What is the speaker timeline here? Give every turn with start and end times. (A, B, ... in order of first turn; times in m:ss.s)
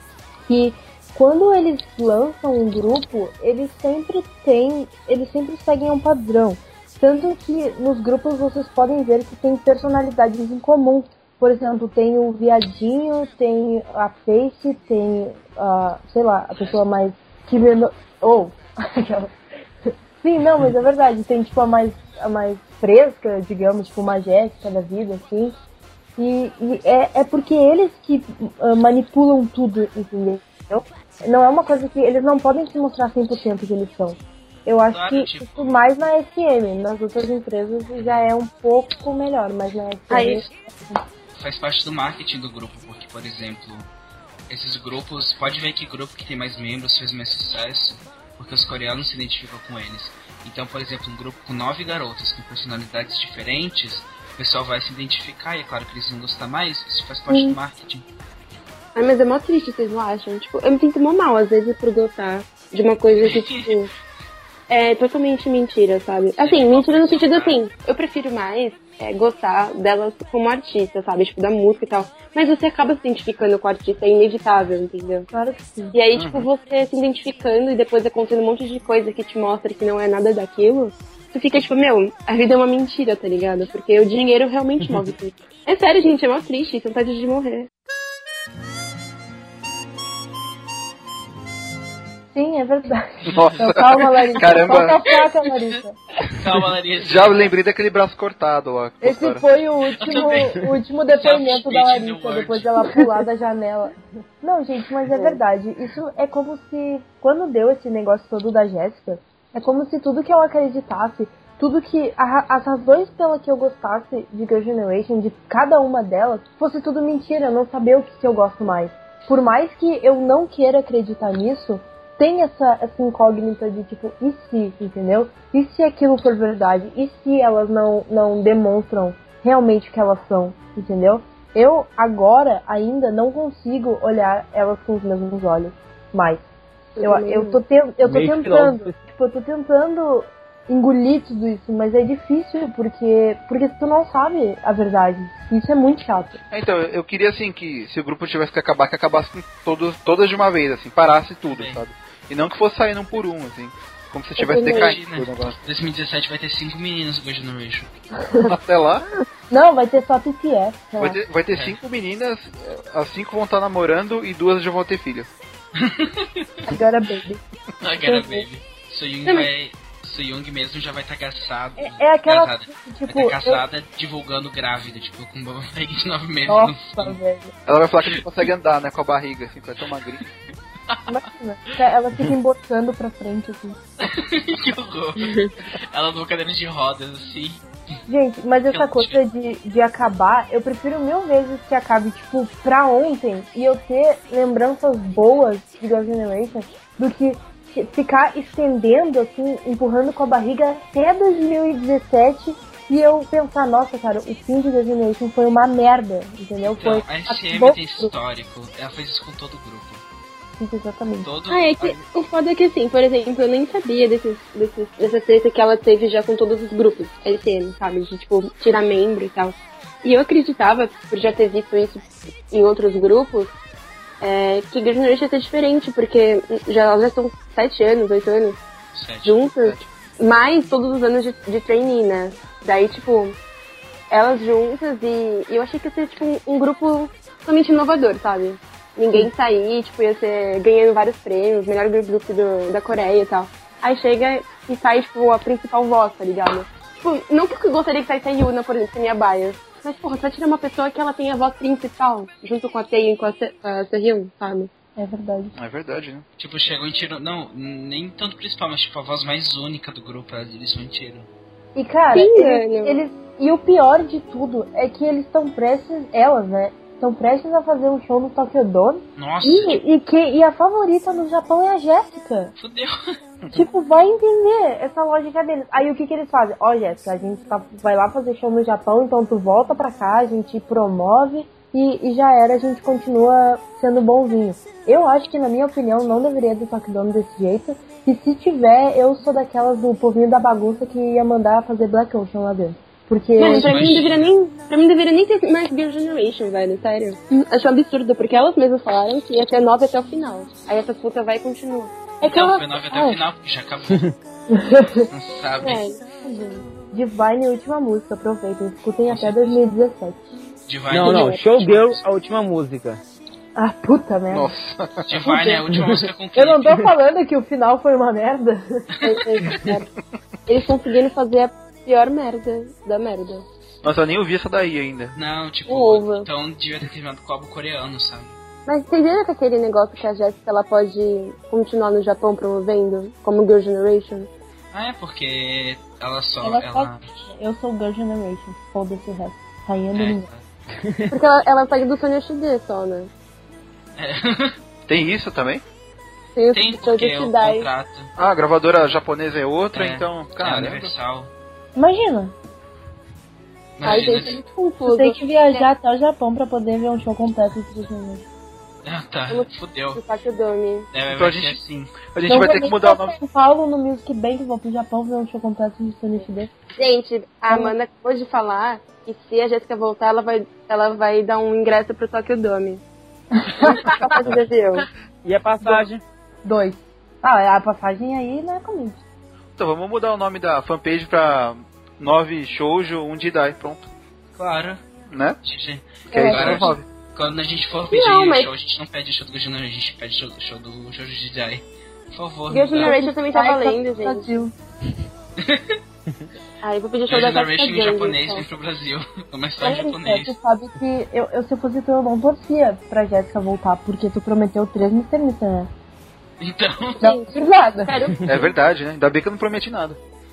0:00.5-0:19.3 A
0:20.2-0:25.5 A
0:26.2-0:41.0 A
0:34.9-0:35.8 B
0:38.0-0:38.3 B
0:40.1-0:40.4 C
0:41.4-0:43.9 B
0:44.5-0:58.0 B
0:57.3-0:57.6 A
0:58.9-1:03.9 C
1:03.1-1:03.8 B
1:04.7-1:15.3 C
1:06.4-1:07.6 B
1:15.3-1:15.9 A
1:15.9-1:27.7 C
1:16.1-1:16.5 D
1:32.3-1:36.0 A
1:33.2-1:35.0 D
1:36.3-1:37.5 B
1:37.0-1:39.4 D
1:39.0-2:16.4 A
1:39.9-1:43.0 B
1:45.1-1:45.4 C
2:17.0-2:17.6 C
2:17.0-2:26.4 A
2:18.0-2:19.0 E
2:26.5-2:35.6 D
2:31.5-2:31.8 B
2:34.4-2:35.0 C
2:34.7-2:37.9 B
2:38.4-2:39.0 D
2:39.5-2:41.2 A
2:41.0-2:45.3 D
2:41.5-2:41.8 B
2:45.8-2:46.6 B
2:46.6-2:47.4 A
2:47.8-2:57.2 B
2:48.0-2:48.4 A
2:51.8-2:53.6 A
2:56.5-2:57.5 A
2:57.6-3:00.2 D
3:01.1-3:03.8 A
3:04.0-3:07.6 B
3:05.2-3:05.5 C
3:08.1-3:28.1 A
3:08.7-3:09.2 B
3:26.6-3:30.0 B
3:30.6-3:31.3 A
3:31.2-3:32.0 B
3:31.5-3:43.6 C
3:44.2-3:48.6 C
3:48.9-3:49.4 B
3:49.2-3:53.4 C
3:54.1-4:14.7 C
4:15.0-4:15.5 A
4:15.5-4:16.2 D
4:16.4-4:21.3 B
4:21.8-4:32.5 A
4:22.1-4:23.0 C
4:29.2-4:29.8 B
4:32.6-4:33.2 B
4:33.5-4:53.9 A
4:53.4-5:01.9 C
4:53.4-4:54.3 B
5:02.2-5:03.2 A
5:02.2-5:04.1 B
5:04.5-5:05.1 A
5:05.1-5:05.8 B
5:05.6-5:06.0 C
5:06.2-5:10.2 A
5:09.0-5:09.6 B
5:10.7-5:12.0 B
5:10.9-5:13.0 E
5:11.0-5:11.4 A
5:13.6-5:14.5 A
5:14.3-5:15.1 D
5:15.0-5:16.9 B
5:15.2-5:15.6 A
5:15.7-5:16.0 E
5:16.3-5:19.0 A
5:19.0-5:19.9 C
5:19.1-5:19.6 B
5:20.5-5:23.4 C
5:23.8-5:25.2 D
5:25.1-5:28.4 B
5:25.7-5:26.3 C
5:28.7-5:34.3 C
5:34.7-5:37.0 B
5:36.4-5:40.2 A
5:39.9-5:40.4 B
5:40.8-5:41.1 E
5:41.1-5:43.1 C
5:44.0-5:44.6 B
5:44.9-5:45.6 D
5:46.3-5:47.7 C
5:46.5-5:48.1 B
5:48.2-5:50.9 D
5:49.7-5:51.3 B
5:51.8-5:52.3 A
5:53.8-5:54.4 B
5:53.8-5:55.7 C
5:54.8-5:58.3 A
5:58.8-6:00.0 B
5:59.3-6:00.9 C
6:00.9-6:02.0 B
6:01.1-6:03.2 D
6:02.3-6:06.5 A
6:06.8-6:12.8 C
6:07.5-6:07.7 A
6:13.3-6:13.9 A
6:13.6-6:14.9 C
6:15.2-6:16.0 E
6:15.6-6:15.9 A
6:16.4-6:19.0 A
6:19.6-6:23.9 D
6:24.4-6:24.8 B
6:25.1-6:25.4 D
6:25.4-6:33.0 B
6:26.1-6:26.4 A
6:26.1-6:26.8 D
6:26.1-6:26.6 C
6:27.9-6:28.5 C
6:32.5-6:34.3 C
6:32.8-6:34.5 A
6:35.4-6:35.8 B
6:36.6-6:38.4 C
6:37.1-6:40.3 B
6:39.6-6:45.7 A
6:46.4-6:47.0 B
6:47.0-6:48.5 C
6:47.0-6:47.9 A
6:48.2-6:50.0 D